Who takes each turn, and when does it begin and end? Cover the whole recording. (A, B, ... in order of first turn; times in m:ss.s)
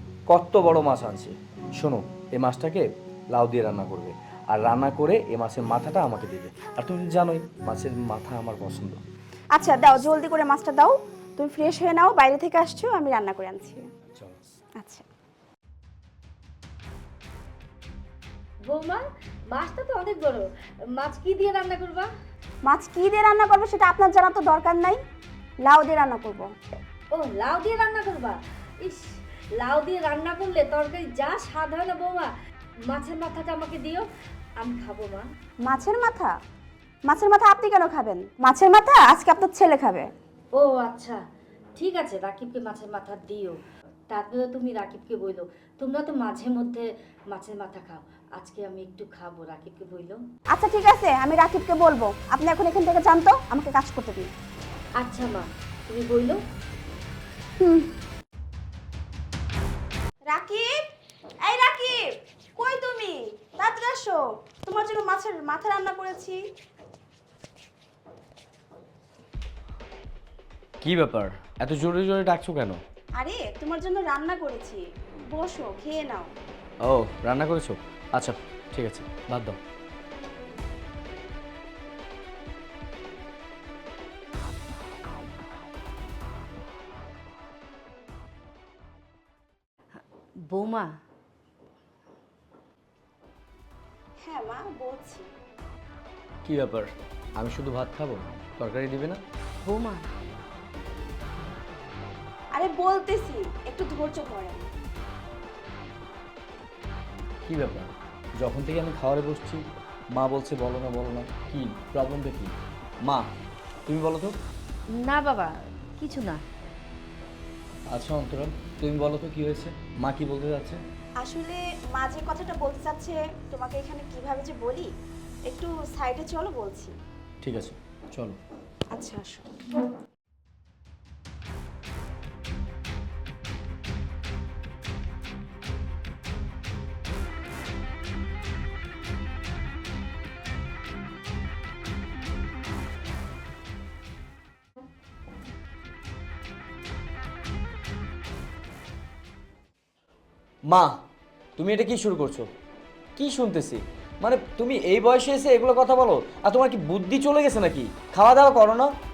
0:00.3-0:09.0 A
0:09.5-0:13.8 B
0:14.8-0:15.0 B
0:18.7-0:22.1 C
0:22.7-0:25.0 B
0:25.7-0:26.5 B
0:27.1-0:32.3 C
0:32.9-0:34.1 C
0:34.6-0:35.3 C
0:35.7-0:36.4 B
0:37.1-0:40.1 B
0:40.5-0:41.2 C
0:41.8-0:50.2 C
0:50.5-0:54.3 B
0:55.0-0:56.4 C
0:57.6-0:57.9 B
1:00.3-1:00.8 B
1:01.4-1:06.4 B
1:10.8-1:12.8 A
1:13.2-1:16.3 B
1:16.8-1:19.6 A
1:30.4-1:31.0 C
1:34.2-1:35.3 B
1:36.4-1:39.2 A
1:39.6-1:40.1 C
1:42.5-1:44.7 B
1:47.4-1:53.3 A
1:53.9-1:54.4 A
1:54.9-1:56.4 C
1:57.9-2:00.8 A
2:01.2-2:04.9 B
2:05.5-2:06.9 B
2:07.4-2:08.4 A
2:08.9-2:09.5 B
2:30.7-2:30.9 A
2:31.6-2:32.5 A
2:33.2-2:38.9 A